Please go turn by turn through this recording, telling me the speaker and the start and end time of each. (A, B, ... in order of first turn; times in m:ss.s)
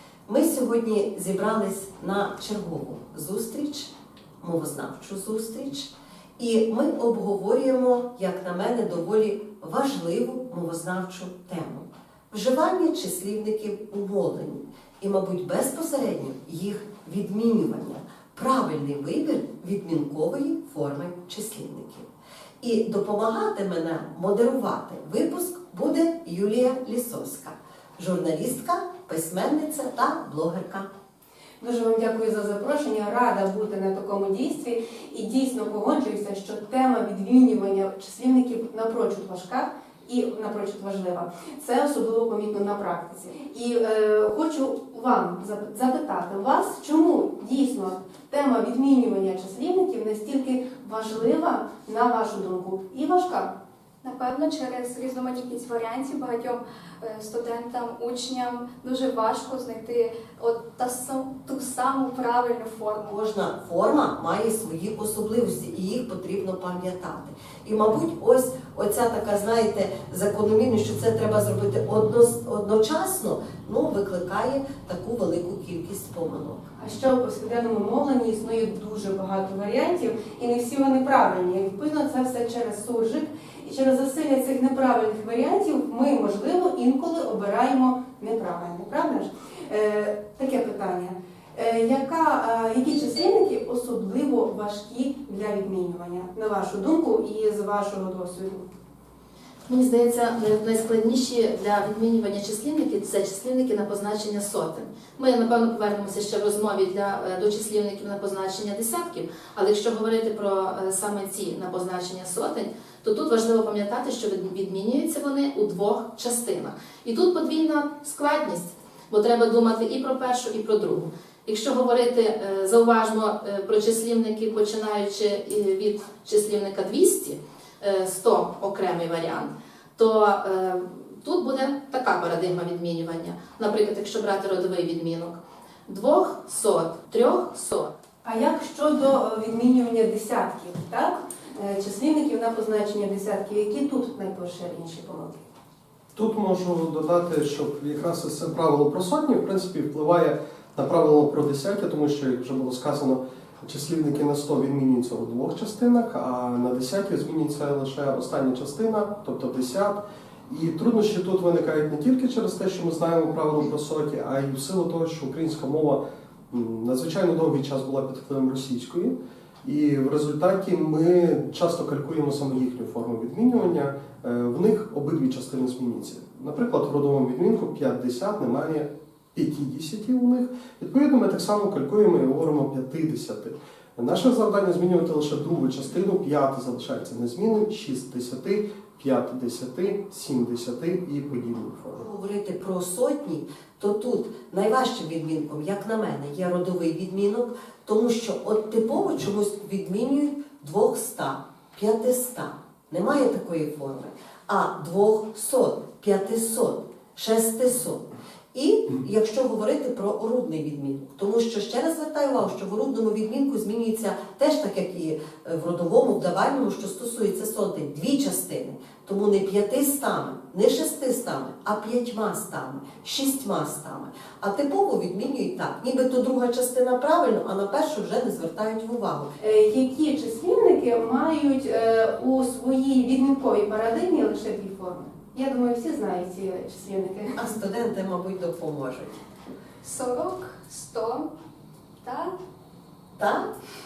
0:00.3-0:22.1 A
0:22.6-0:30.9 A
0:31.6-0:53.5 B
0:54.0-1:03.2 C
1:02.9-1:16.6 A
1:16.8-1:38.6 B
1:39.7-2:17.9 D
2:18.2-2:25.4 B
2:26.1-3:12.0 E
3:12.0-3:49.3 A
3:49.4-3:57.4 B
3:57.4-3:59.2 A
3:59.8-4:01.3 C
4:02.0-4:02.3 C
4:03.2-4:03.5 A